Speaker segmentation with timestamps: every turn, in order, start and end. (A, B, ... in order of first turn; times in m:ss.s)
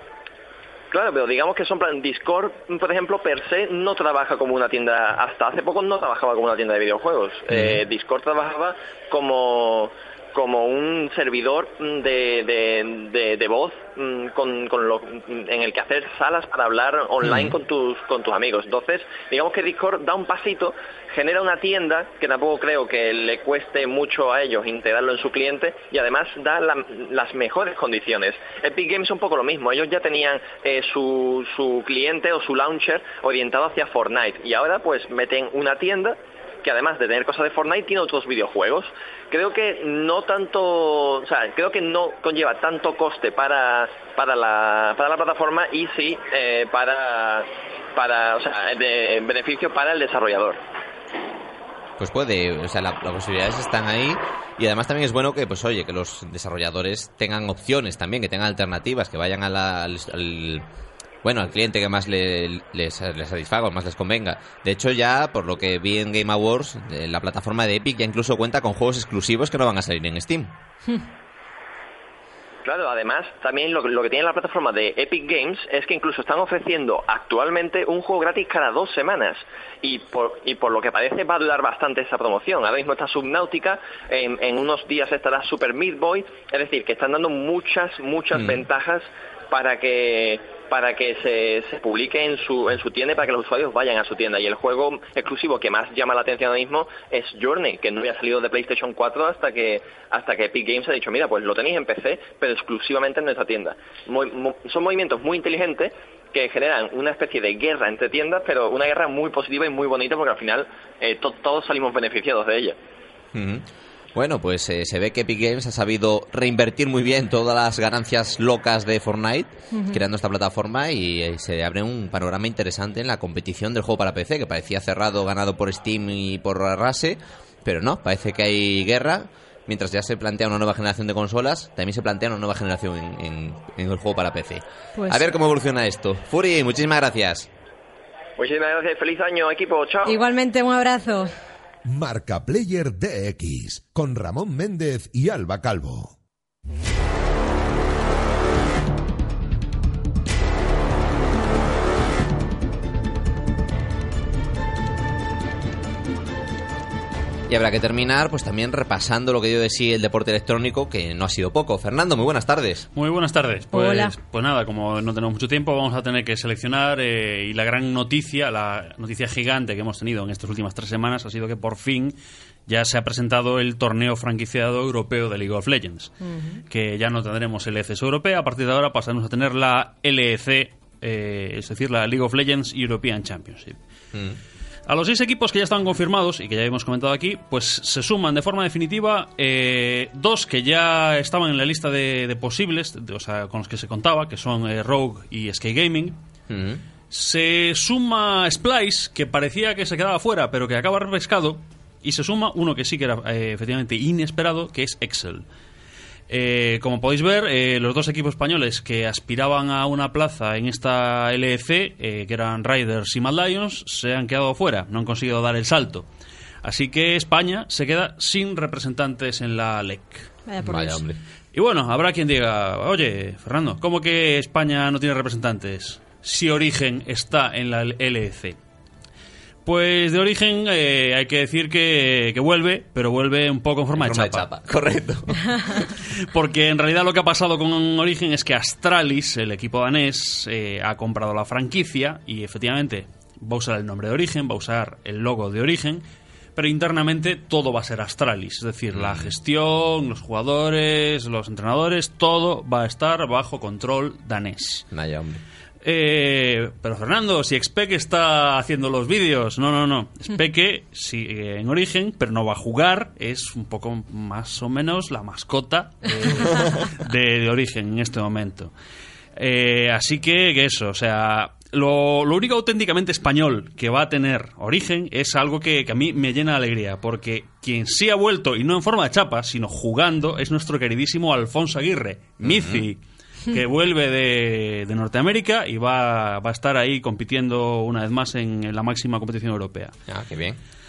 0:00.9-0:50.6 A
0:07.5-0:07.8 B
0:17.2-0:17.6 B
0:52.0-1:00.6 B
1:01.2-1:10.5 B
1:12.6-1:52.8 A
1:28.4-1:28.6 B
1:53.3-1:53.6 B
1:54.2-2:17.5 B
1:59.7-2:00.0 C
2:15.0-2:15.3 C
2:18.4-2:20.2 A
2:20.1-2:21.3 C
2:21.9-2:26.1 D
2:37.5-2:42.9 B
2:42.9-2:52.2 E
2:43.7-2:44.1 C
2:52.7-2:56.1 E
2:56.2-2:56.6 C
2:56.7-3:03.8 E
3:04.9-3:16.2 E
3:16.5-3:16.8 B
3:17.1-3:25.5 E
3:26.3-3:36.1 E
3:36.6-3:40.3 E
3:40.5-3:41.0 C
3:40.6-3:41.2 B
3:41.5-3:48.6 E
3:49.6-3:54.5 E
3:54.0-3:55.9 B
3:56.3-4:06.0 E
4:06.6-4:14.9 E
4:08.9-4:09.3 B
4:14.9-4:15.4 B
4:15.8-4:28.7 E
4:29.4-4:50.0 E
4:42.4-4:42.9 B
4:50.1-4:50.6 B